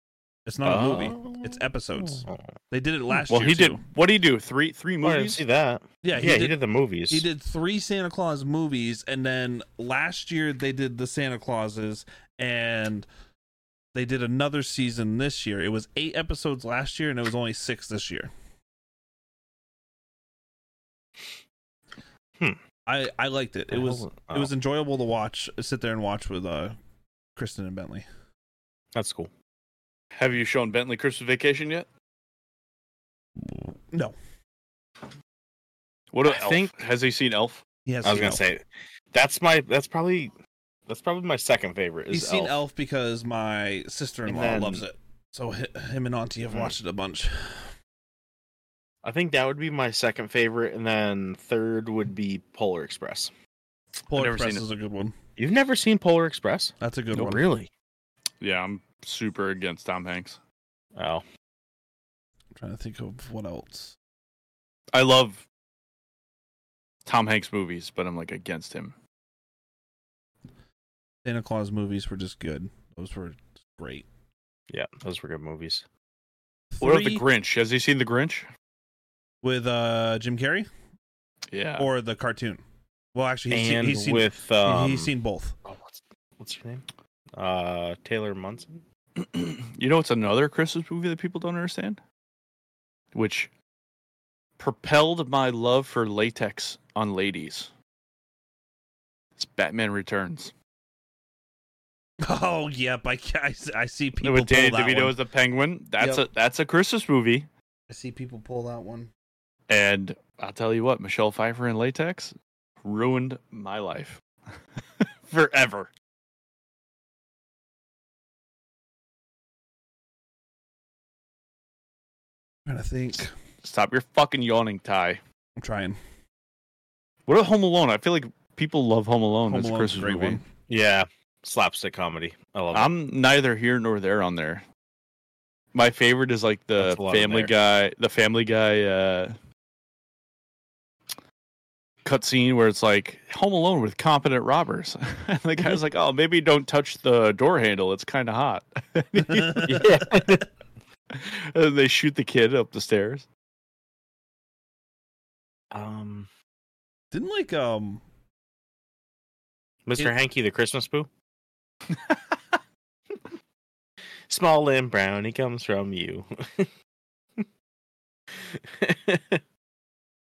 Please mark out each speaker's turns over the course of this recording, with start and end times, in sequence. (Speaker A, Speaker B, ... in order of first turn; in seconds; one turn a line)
Speaker A: 0.5-3.8
Speaker B: 0.6-2.5
Speaker C: 3.3-5.4
Speaker B: 5.0-7.2
Speaker A: 6.0-6.6
Speaker A: 7.1-13.1
Speaker A: 13.9-18.3
Speaker A: 22.9-26.8
Speaker B: 23.7-24.5
Speaker A: 27.4-28.1
Speaker B: 28.9-29.3
Speaker C: 30.1-31.9
Speaker A: 33.4-34.1
Speaker C: 36.1-37.6
Speaker B: 36.2-36.7
Speaker A: 37.9-38.4
Speaker B: 38.0-40.3
Speaker B: 40.9-42.5
Speaker A: 42.1-47.7
Speaker B: 44.2-44.9
Speaker B: 49.0-53.3
Speaker A: 54.1-55.2
Speaker C: 54.1-54.6
Speaker B: 55.4-57.7
Speaker A: 56.8-57.4
Speaker C: 58.4-60.4
Speaker B: 60.9-61.2
Speaker A: 62.5-63.9
Speaker C: 64.9-65.4
Speaker C: 67.0-68.9
Speaker A: 71.2-74.1
Speaker B: 74.7-75.8
Speaker A: 76.7-77.2
Speaker C: 76.8-78.5
Speaker A: 79.4-80.7
Speaker C: 81.5-81.9
Speaker A: 81.8-82.6
Speaker A: 83.1-85.6
Speaker B: 83.5-85.1
Speaker B: 85.6-86.8
Speaker B: 87.3-88.8
Speaker C: 89.2-92.0
Speaker C: 93.1-93.5
Speaker C: 94.6-97.7
Speaker C: 99.4-100.5
Speaker A: 102.2-105.2
Speaker C: 104.2-107.5
Speaker A: 106.0-106.2
Speaker A: 107.9-109.1
Speaker C: 109.7-114.2
Speaker C: 115.0-115.9
Speaker A: 122.7-123.3
Speaker C: 123.6-125.2
Speaker A: 125.6-126.0
Speaker C: 127.3-130.4
Speaker A: 129.5-130.4
Speaker B: 130.7-132.9
Speaker C: 132.7-134.6
Speaker C: 135.7-139.3
Speaker B: 136.8-137.5
Speaker C: 142.0-149.9
Speaker A: 149.2-150.4
Speaker B: 149.7-150.4
Speaker C: 151.1-153.3
Speaker B: 155.7-156.3
Speaker A: 157.1-158.0
Speaker B: 159.8-161.1
Speaker C: 161.9-162.4
Speaker B: 164.3-166.7
Speaker B: 168.3-169.4